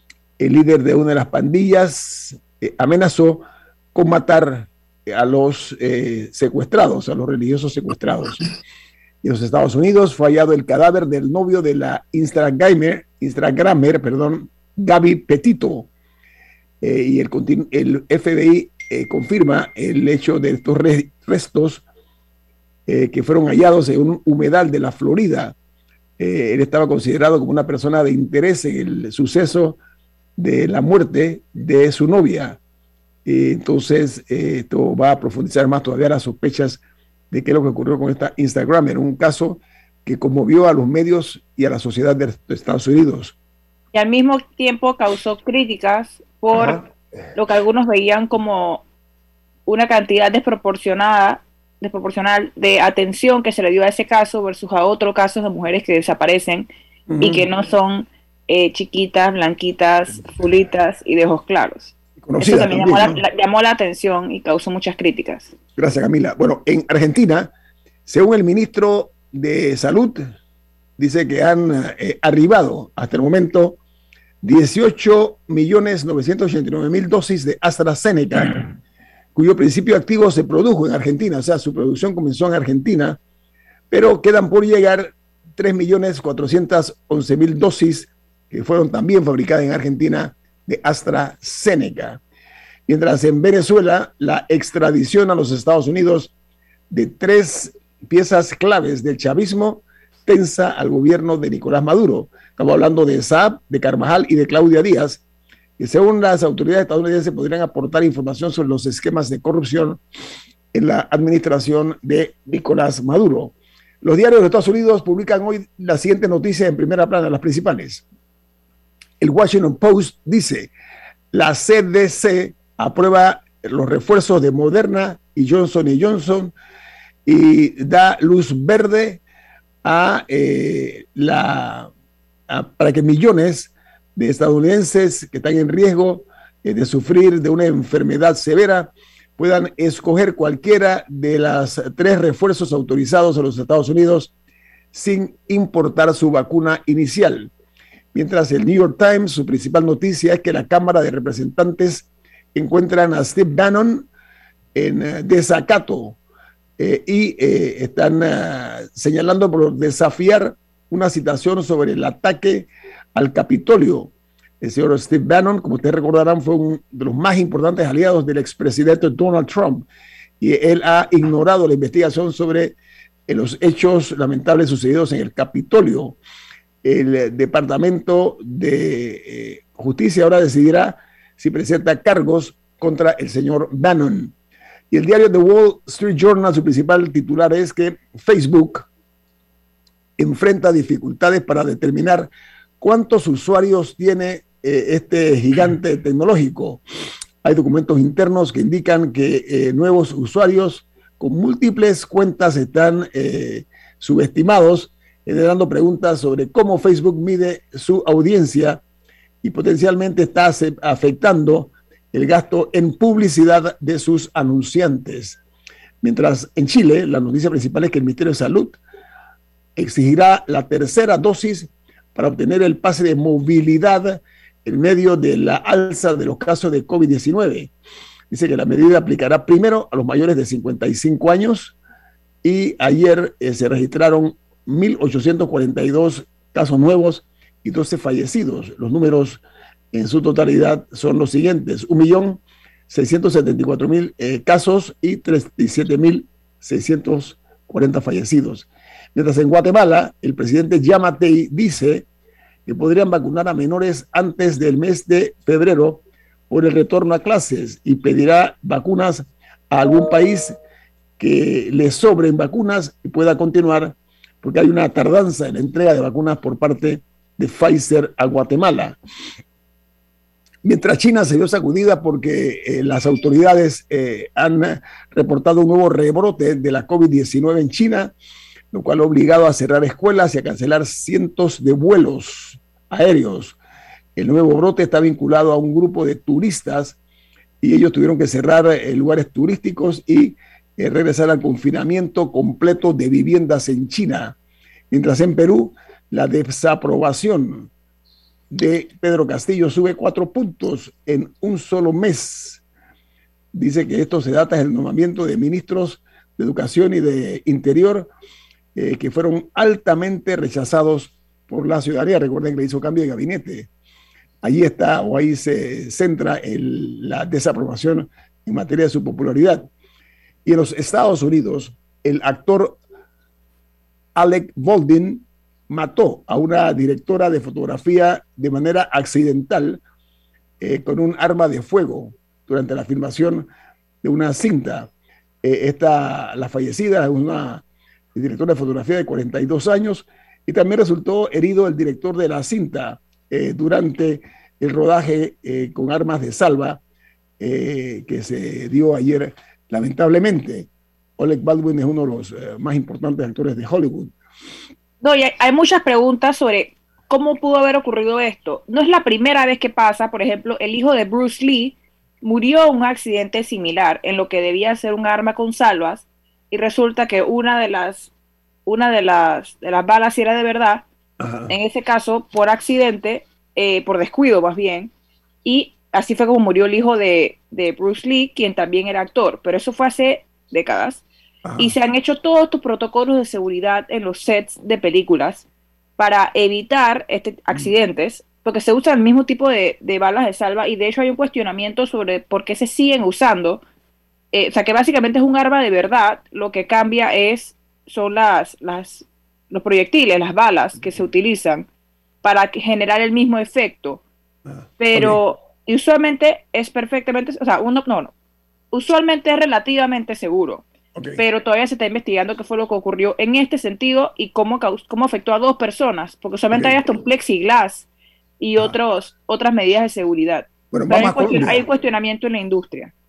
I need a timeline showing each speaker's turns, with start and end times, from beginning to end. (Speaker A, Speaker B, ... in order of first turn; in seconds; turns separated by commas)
Speaker A: 0.4-8.5, Speaker A: 9.2-15.9, Speaker A: 16.8-21.8, Speaker A: 22.9-25.6, Speaker A: 26.2-29.8, Speaker A: 30.4-32.6, Speaker A: 33.2-43.4, Speaker B: 43.9-48.9, Speaker B: 49.7-56.7, Speaker A: 57.1-57.5, Speaker B: 57.2-65.5, Speaker A: 62.2-63.2, Speaker A: 65.8-67.5, Speaker A: 68.1-70.3, Speaker A: 71.0-73.8, Speaker A: 74.4-78.7, Speaker A: 79.3-83.2, Speaker A: 83.9-92.2, Speaker A: 92.9-96.3, Speaker A: 96.9-105.2, Speaker A: 105.8-110.0, Speaker A: 110.7-118.0, Speaker A: 119.2-120.7, Speaker A: 121.3-126.5, Speaker A: 127.2-129.2, Speaker A: 129.8-131.9, Speaker A: 132.5-144.3, Speaker A: 144.9-147.5, Speaker A: 148.1-154.1, Speaker A: 154.8-156.2, Speaker A: 156.8-169.9, Speaker A: 170.4-172.8, Speaker A: 173.3-176.2, Speaker A: 176.8-184.3, Speaker A: 184.9-188.9, Speaker A: 190.2-196.8, Speaker A: 197.4-208.8, Speaker A: 209.4-215.4, Speaker A: 216.0-218.8, Speaker A: 219.8-227.7, Speaker A: 228.3-231.8, Speaker A: 232.4-252.1, Speaker A: 252.7-260.6, Speaker A: 261.2-269.0, Speaker A: 270.6-278.1, Speaker A: 278.7-283.6, Speaker A: 284.2-287.0, Speaker A: 287.6-294.4, Speaker A: 294.9-297.7, Speaker A: 298.5-302.6, Speaker A: 303.5-308.1, Speaker A: 308.8-313.7, Speaker A: 314.4-319.7, Speaker A: 320.4-322.8, Speaker A: 324.2-329.8, Speaker A: 330.6-333.5, Speaker A: 334.0-334.9, Speaker A: 335.4-346.8, Speaker A: 347.4-354.1, Speaker B: 355.0-368.1, Speaker B: 368.7-370.9, Speaker A: 371.2-371.6, Speaker B: 371.5-374.9, Speaker B: 375.4-381.0, Speaker A: 381.4-381.7, Speaker B: 381.6-385.5, Speaker B: 386.0-393.6, Speaker B: 394.3-401.7, Speaker B: 402.2-404.0, Speaker A: 404.5-405.2, Speaker B: 404.8-408.1, Speaker B: 408.7-410.6, Speaker A: 410.9-411.2, Speaker B: 411.2-417.9, Speaker A: 416.5-417.0, Speaker B: 418.4-422.9, Speaker A: 420.7-421.6